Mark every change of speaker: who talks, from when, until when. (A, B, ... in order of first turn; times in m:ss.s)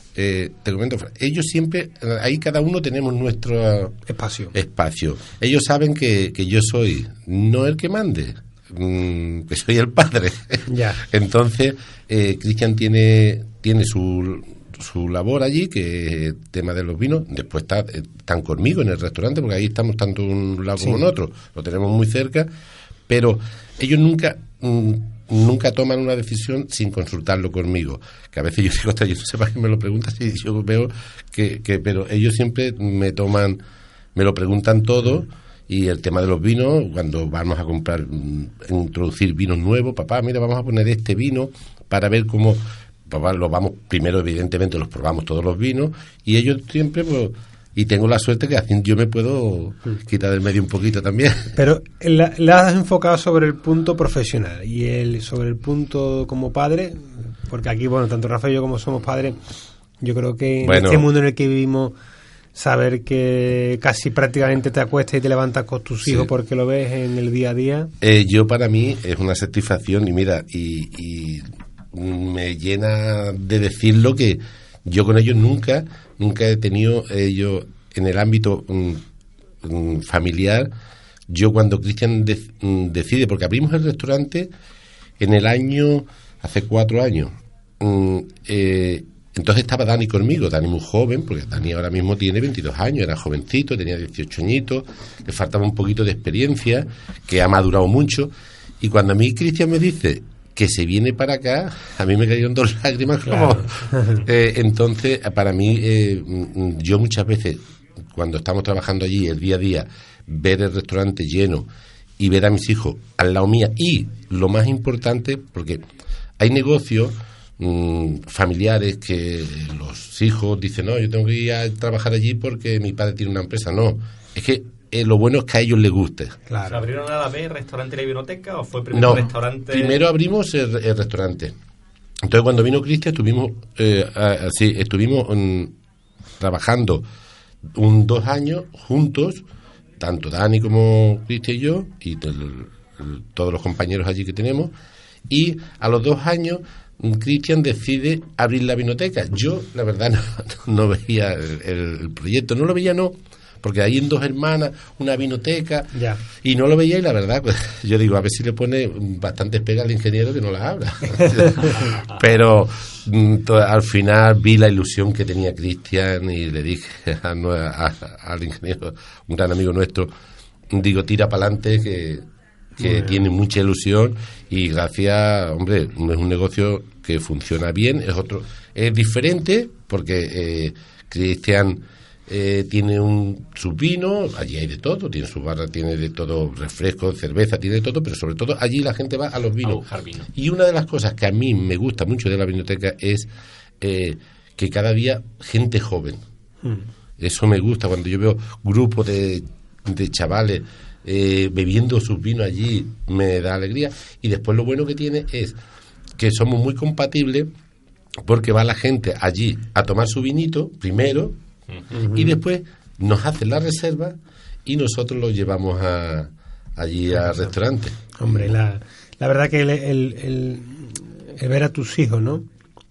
0:00.2-0:04.0 A
0:04.1-0:04.6 B
0:04.5-0:22.5 A
0:10.7-0:11.0 B
0:23.1-0:33.6 A
0:34.2-0:51.6 A
0:51.6-0:59.4 B
1:00.0-1:02.0 B
1:00.6-1:01.1 A
1:02.5-1:07.9 B
1:08.0-1:19.0 A
1:19.6-1:20.7 A
1:21.3-1:24.5 A
1:25.2-1:51.7 A
1:43.9-1:44.2 B
1:52.2-1:55.8 A
1:56.4-2:06.4 A
2:06.5-2:06.9 B
2:06.7-2:10.0 C
2:08.9-2:11.6 A
2:12.2-2:15.8 A
2:16.4-2:17.1 A
2:17.7-2:19.4 A
2:20.0-2:24.7 A
2:25.3-2:50.1 A
2:35.9-2:36.2 B
2:50.7-2:52.3 A
2:52.8-3:13.3 A
2:52.8-2:53.2 B
3:09.6-3:10.3 C
3:13.8-3:16.2 A
3:17.2-3:25.6 A
3:26.2-3:27.5 A
3:28.2-3:31.4 A
3:31.9-3:32.4 B
3:32.1-3:38.5 A
3:38.2-3:42.5 B